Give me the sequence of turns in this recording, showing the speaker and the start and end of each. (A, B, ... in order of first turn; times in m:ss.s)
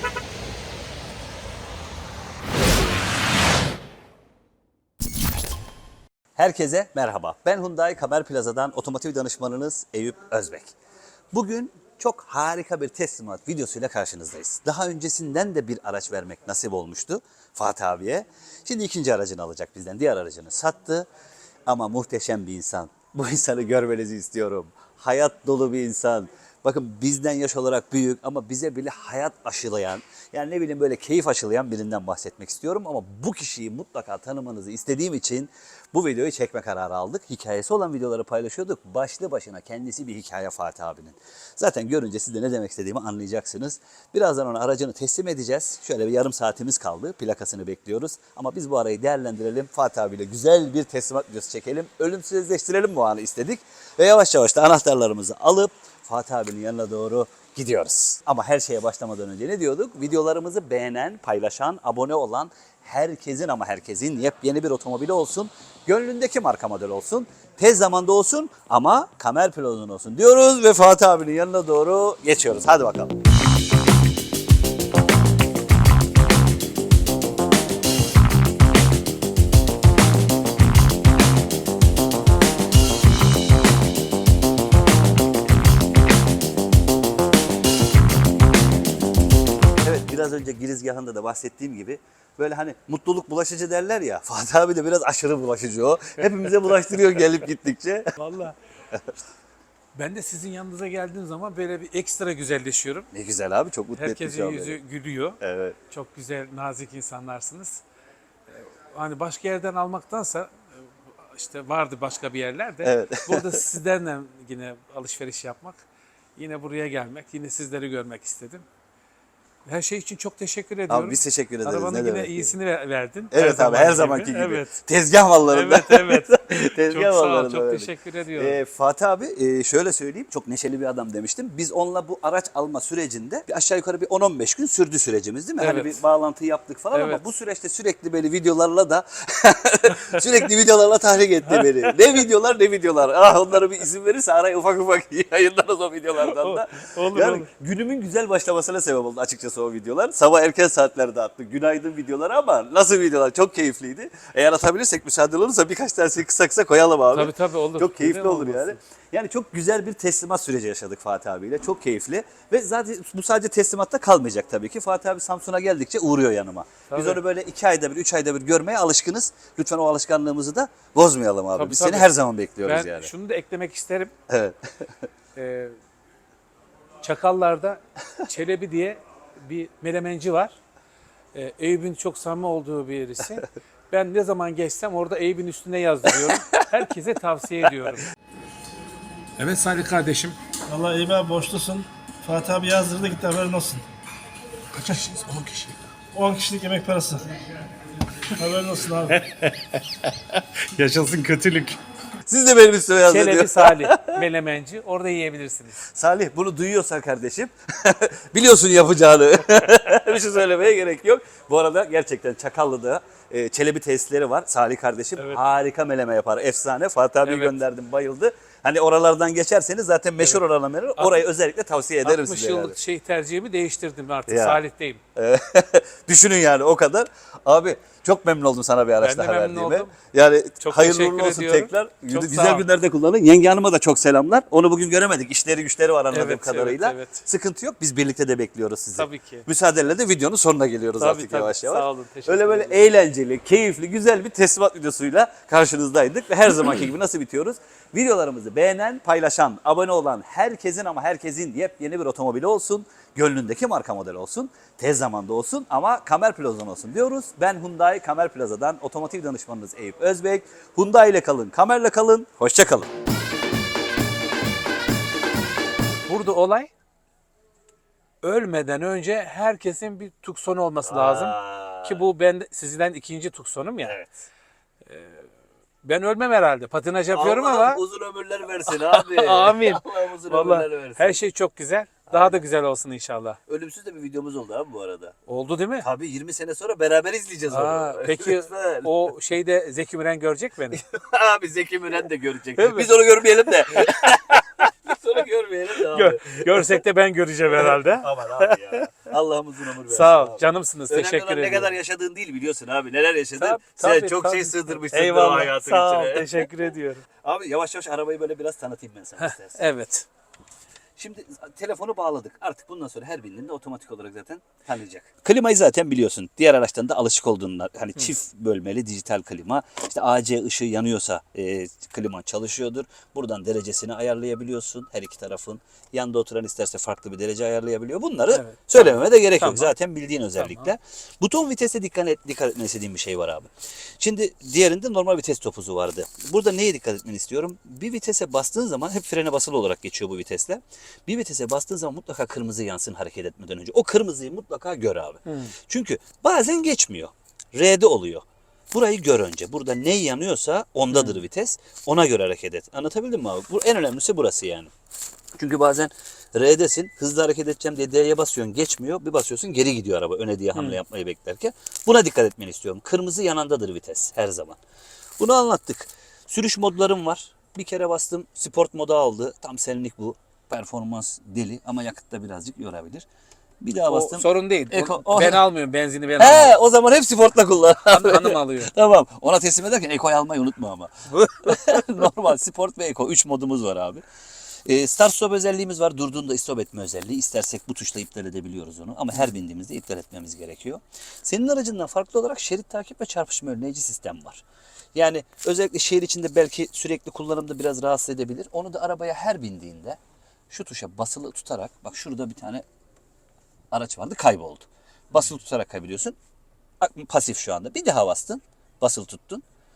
0:06.4-0:10.7 A
0:11.3-0:21.1 A
0:21.7-1:13.1 A
1:29.8-1:38.1 A
1:38.2-1:38.6 B
1:40.0-1:43.1 B
1:43.1-1:44.8 A
1:44.0-1:47.8 B
1:45.4-1:45.8 A
1:48.9-1:50.6 B
1:51.2-1:55.8 B
1:52.8-1:53.7 A
1:56.4-1:58.6 B
1:59.7-2:04.8 B
2:00.9-2:02.5 A
2:03.3-2:53.1 A
2:05.5-2:08.6 B
2:15.6-2:15.9 B
2:16.9-2:17.2 B
2:21.4-2:22.0 B
2:26.2-2:27.5 B
2:37.1-2:38.8 B
2:46.9-2:47.2 B
2:51.5-2:54.1 B
2:54.3-2:54.9 A
2:55.4-2:55.8 B
2:57.0-3:00.6 B
3:01.3-3:08.1 B
3:06.1-3:06.8 A
3:09.4-3:10.4 B
3:10.7-3:13.8 C
3:14.7-3:15.8 B
3:16.1-3:17.2 C
3:18.3-3:19.2 C
3:19.1-3:20.1 B
3:20.7-3:21.8 B
3:22.3-3:24.2 A
3:23.0-3:25.8 B
3:25.9-3:42.8 A
3:37.2-3:37.6 B
3:41.0-3:41.2 B
3:42.0-3:45.0 B
3:44.3-3:44.6 A
3:45.2-4:22.9 A
3:49.0-3:49.9 B
3:50.6-3:52.7 B
3:56.1-3:57.2 B
3:59.0-3:59.5 B
4:01.0-4:02.8 B
4:26.1-4:26.7 B
4:28.2-4:34.0 B
4:30.9-4:32.1 A
4:33.8-4:34.2 A
4:34.9-4:35.3 B
4:35.8-4:37.8 B
4:37.1-4:41.2 A
4:38.7-4:43.4 B
4:42.1-4:42.4 A
4:43.5-4:45.2 A
4:45.3-4:45.9 B
4:45.8-4:49.0 A
4:47.5-4:50.8 B
4:50.7-4:56.8 A
4:52.6-4:52.9 B
4:53.7-4:54.7 B
4:55.9-4:58.8 B
4:57.5-5:06.7 A
4:59.9-5:01.7 B
5:03.4-5:07.0 B
5:07.2-5:09.7 A
5:09.2-5:10.1 B
5:11.0-5:54.7 A
5:28.3-5:29.7 B
5:30.4-5:30.7 B
5:45.3-5:45.5 B
5:50.9-5:51.2 B
5:55.4-6:04.6 A
6:05.2-6:13.1 A
6:13.6-6:15.4 A
6:13.9-6:16.6 B
6:16.2-6:24.0 A
6:17.9-6:18.7 B
6:21.1-6:21.8 B
6:24.7-6:40.0 A
6:40.5-6:42.6 A
6:43.7-6:46.2 A
6:46.8-6:49.4 A